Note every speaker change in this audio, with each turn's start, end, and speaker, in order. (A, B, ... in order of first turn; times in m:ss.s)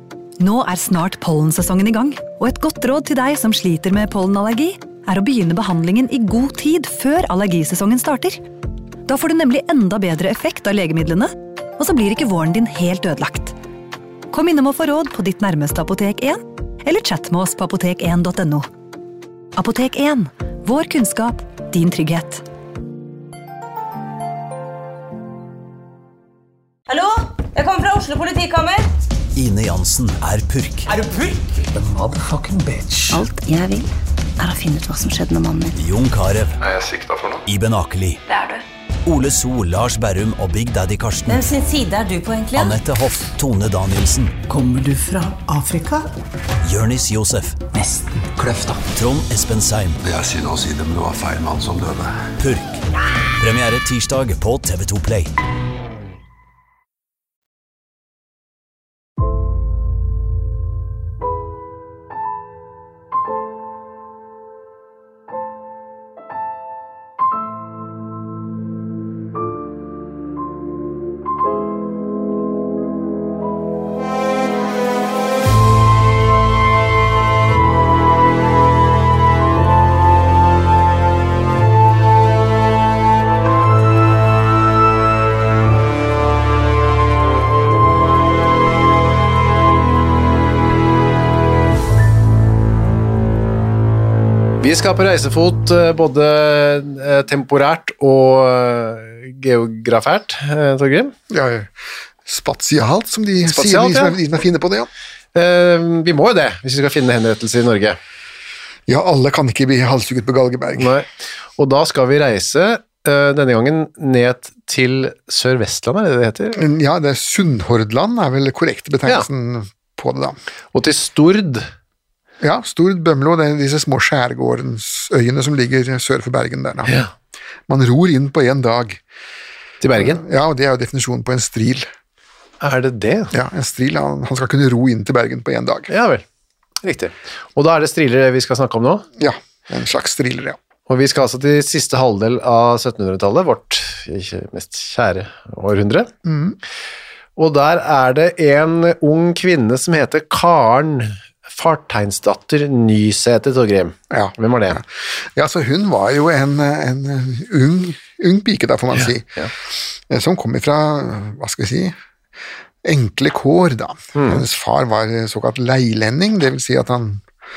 0:00.4-0:08.4 A
0:09.1-0:13.6 A
0:14.3-0:18.7 A
0:19.6-0:22.4 A
0:26.9-0:28.9 B
0:29.4-0:30.9 C
0:31.0-0:31.4 B
0:31.7-0:33.2 D
0:33.1-0:35.8 E
0:35.7-0:36.6 C
0:36.6-0:37.4 F
0:37.5-0:38.2 C
0:38.3-0:38.6 B
0:39.0-0:41.5 C
0:41.3-0:42.8 B
0:42.6-0:44.4 C
0:44.5-0:46.1 D
0:46.6-0:47.6 C
0:47.7-0:48.9 D
0:48.9-0:50.0 C
0:50.0-0:52.3 F
0:52.4-0:52.8 C
0:53.4-0:55.3 C
1:34.6-1:41.1 G
1:41.3-1:41.7 H
1:42.2-1:44.9 H
1:43.4-1:44.2 G
1:45.4-1:48.0 G
1:48.9-1:51.0 H
1:50.8-1:56.6 G
1:56.6-2:00.4 H
2:00.7-2:01.7 G
2:02.4-2:06.9 H
2:07.7-2:09.0 H
2:09.8-2:10.2 G
2:10.0-2:11.9 H
2:12.6-2:13.3 G
2:13.3-2:15.9 H
2:15.9-2:16.2 G
2:16.8-2:19.0 G
2:19.2-2:20.6 H
2:20.9-2:26.1 G
2:26.2-2:26.6 H
2:27.4-2:34.8 G
2:34.1-2:39.3 H
2:39.0-2:39.5 G
2:39.9-2:42.0 H
2:42.8-2:47.2 H
2:44.2-2:44.4 G